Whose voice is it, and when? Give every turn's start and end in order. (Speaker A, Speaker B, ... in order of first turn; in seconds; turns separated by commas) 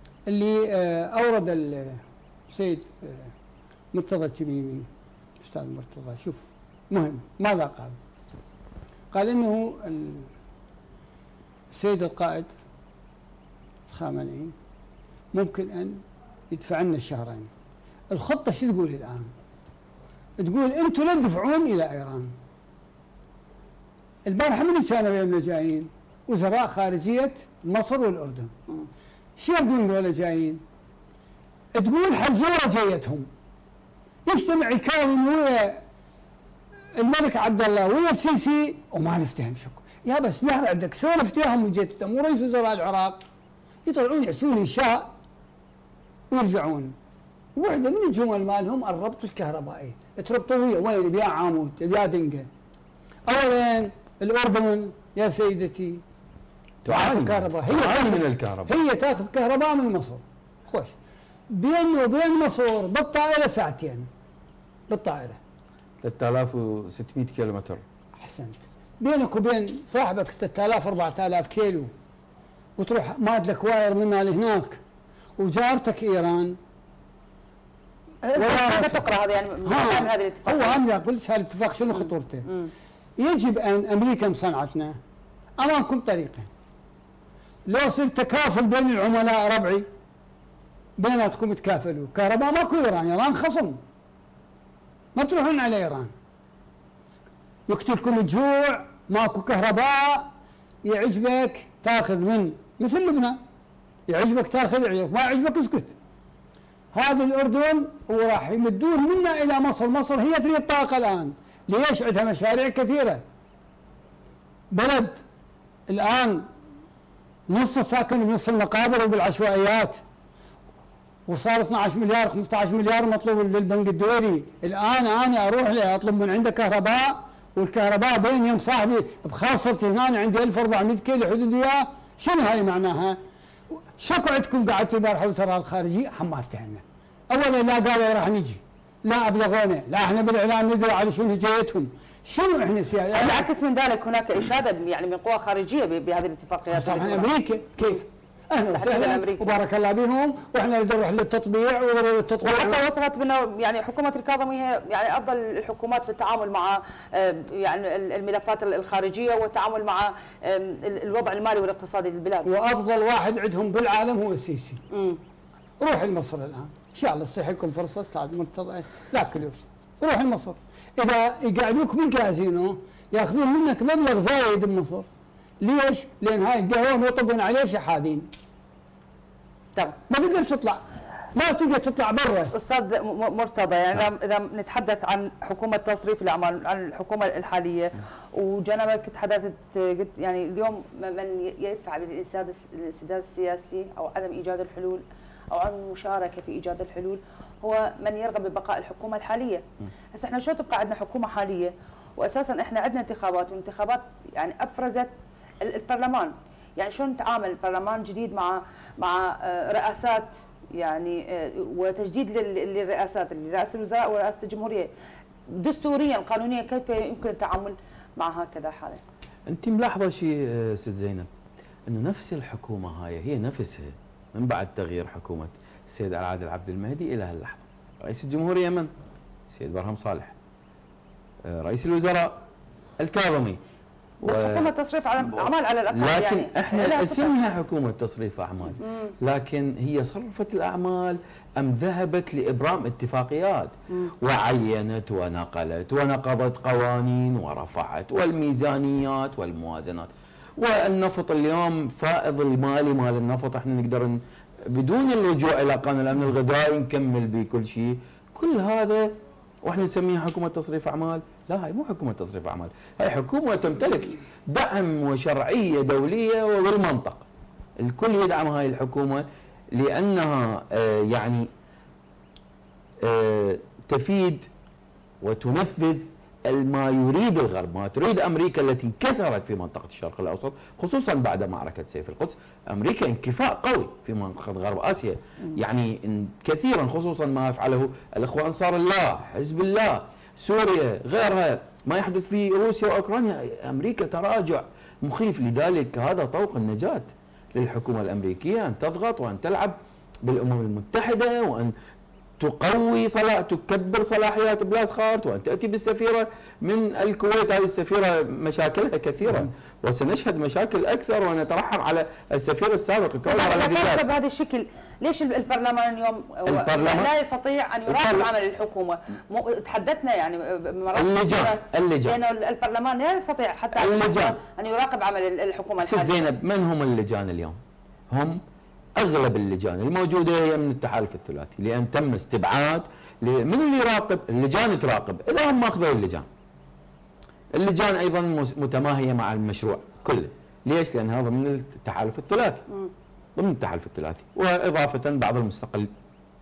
Speaker A: 0.3-3.3, Speaker A: 3.9-4.9, Speaker A: 5.4-8.0, Speaker A: 9.1-10.3, Speaker A: 11.7-12.5, Speaker A: 13.9-14.5, Speaker A: 15.3-17.5, Speaker A: 18.1-19.3, Speaker A: 20.4-22.3, Speaker A: 24.2-28.5, Speaker A: 29.4-30.6, Speaker A: 31.8-33.3, Speaker A: 34.2-35.8, Speaker A: 36.9-43.2, Speaker A: 43.9-45.1, Speaker A: 46.3-46.9, Speaker A: 47.5-52.5, Speaker A: 53.3-56.0, Speaker B: 56.8-58.7, Speaker A: 56.9-60.9, Speaker A: 61.5-64.1, Speaker A: 64.9-65.4, Speaker B: 66.0-67.8, Speaker A: 68.1-71.9, Speaker A: 72.8-74.8, Speaker A: 75.4-76.6, Speaker C: 78.2-80.8, Speaker A: 78.3-79.1, Speaker A: 79.6-82.5, Speaker A: 83.2-85.0, Speaker A: 85.6-86.5, Speaker A: 87.7-89.8, Speaker A: 91.0-93.8, Speaker A: 95.1-96.1, Speaker A: 97.7-100.3, Speaker A: 100.8-103.4, Speaker A: 104.1-105.9, Speaker A: 106.9-113.2, Speaker A: 114.7-115.2, Speaker A: 115.9-116.5, Speaker A: 117.5-120.0, Speaker A: 121.3-133.2, Speaker A: 133.7-143.5, Speaker C: 143.1-147.3, Speaker A: 146.7-152.8, Speaker C: 148.7-149.5, Speaker C: 152.4-162.5, Speaker A: 162.4-164.8, Speaker C: 164.9-165.2, Speaker A: 165.8-175.1, Speaker A: 175.6-178.3, Speaker A: 180.1-180.8, Speaker A: 181.3-182.5, Speaker C: 182.5-214.9, Speaker C: 215.5-219.0, Speaker B: 219.5-221.3, Speaker B: 221.9-228.9, Speaker B: 229.5-230.3, Speaker B: 231.4-232.4, Speaker B: 233.0-233.6, Speaker C: 234.2-237.3, Speaker B: 234.2-234.7, Speaker B: 235.2-267.2, Speaker C: 238.8-239.1, Speaker B: 267.8-271.5, Speaker B: 273.0-274.5, Speaker B: 275.2-301.7, Speaker B: 302.4-314.0, Speaker C: 313.3-326.3, Speaker B: 316.4-317.1, Speaker B: 317.9-318.3, Speaker B: 320.9-322.2, Speaker B: 323.7-324.4, Speaker B: 325.8-327.6, Speaker B: 328.1-328.4, Speaker B: 329.0-336.2, Speaker B: 337.5-342.6, Speaker B: 343.4-345.9